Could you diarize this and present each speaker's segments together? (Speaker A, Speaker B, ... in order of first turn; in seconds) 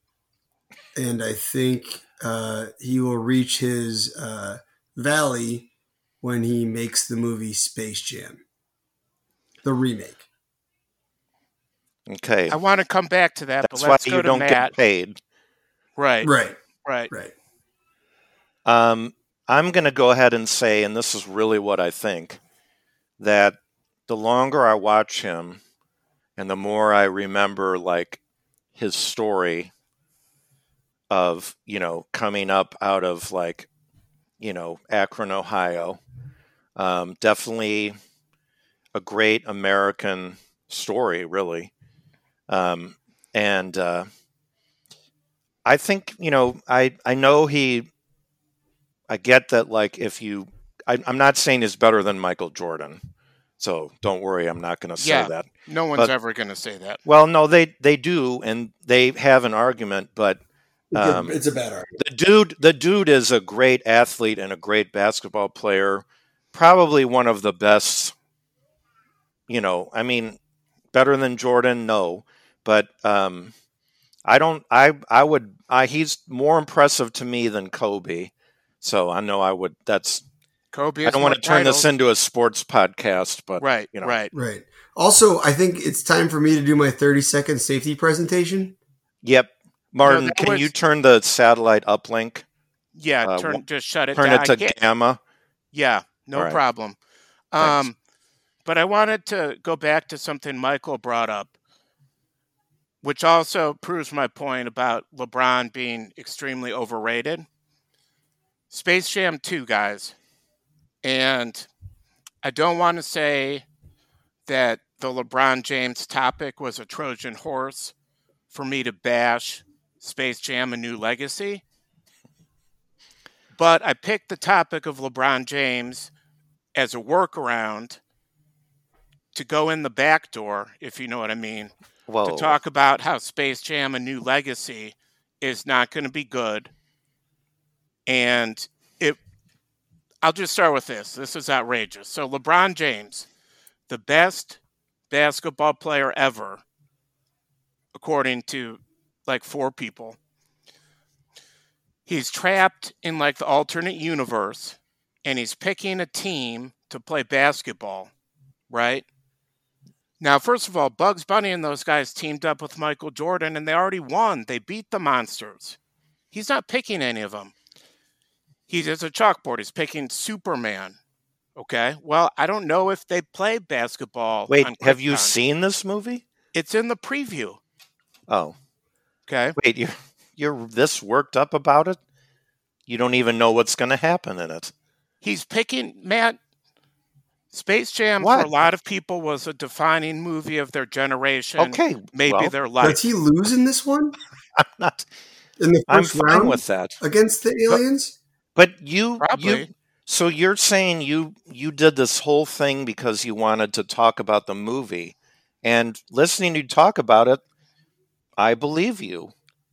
Speaker A: 0.9-5.7, 6.2-8.4, 9.6-10.2, 16.2-16.6, 60.9-62.0, 84.3-88.8, 192.8-194.1, 195.6-198.2
Speaker B: 12.1-12.6, 13.6-15.2, 18.6-22.4, 23.2-23.6, 24.1-25.6, 26.4-28.2, 28.8-29.7, 31.1-33.7, 34.4-36.0, 36.8-37.9, 38.9-41.7, 42.5-44.1, 45.6-47.9, 49.1-53.0, 53.6-56.1, 57.0-60.4, 60.9-61.3, 62.0-68.1, 69.5-70.4, 70.9-73.5, 74.2-80.2, 81.0-84.2, 89.2-92.4, 93.2-93.6, 94.1-95.2, 96.3-96.6, 97.6-97.9, 132.1-132.6, 174.5-176.2, 178.3-178.5, 179.6-182.0, 182.9-184.7, 188.2-188.5, 191.6-192.5, 194.6-195.1, 195.9-196.9, 198.6-207.4, 208.4-209.3
Speaker C: 12.5-14.7, 16.0-16.3, 16.8-17.1, 55.0-57.0, 80.7-81.8, 83.6-84.3, 90.0-90.7, 92.9-94.8, 95.7-97.0, 97.5-98.0, 98.6-101.5, 103.0-107.5, 108.7-110.1, 111.0-111.7, 112.4-113.6, 114.5-117.9, 118.5-121.6, 123.5-126.1, 126.8-128.0, 129.3-131.7, 132.2-136.7, 138.1-139.2, 140.2-143.3, 143.9-146.6, 147.9-150.2, 152.1-158.1, 158.7-159.0, 160.2-165.8, 166.3-167.5, 168.7-171.0, 171.6-175.3, 176.5-177.6, 179.3-179.6, 185.2-186.4, 187.5-193.0, 199.2-199.7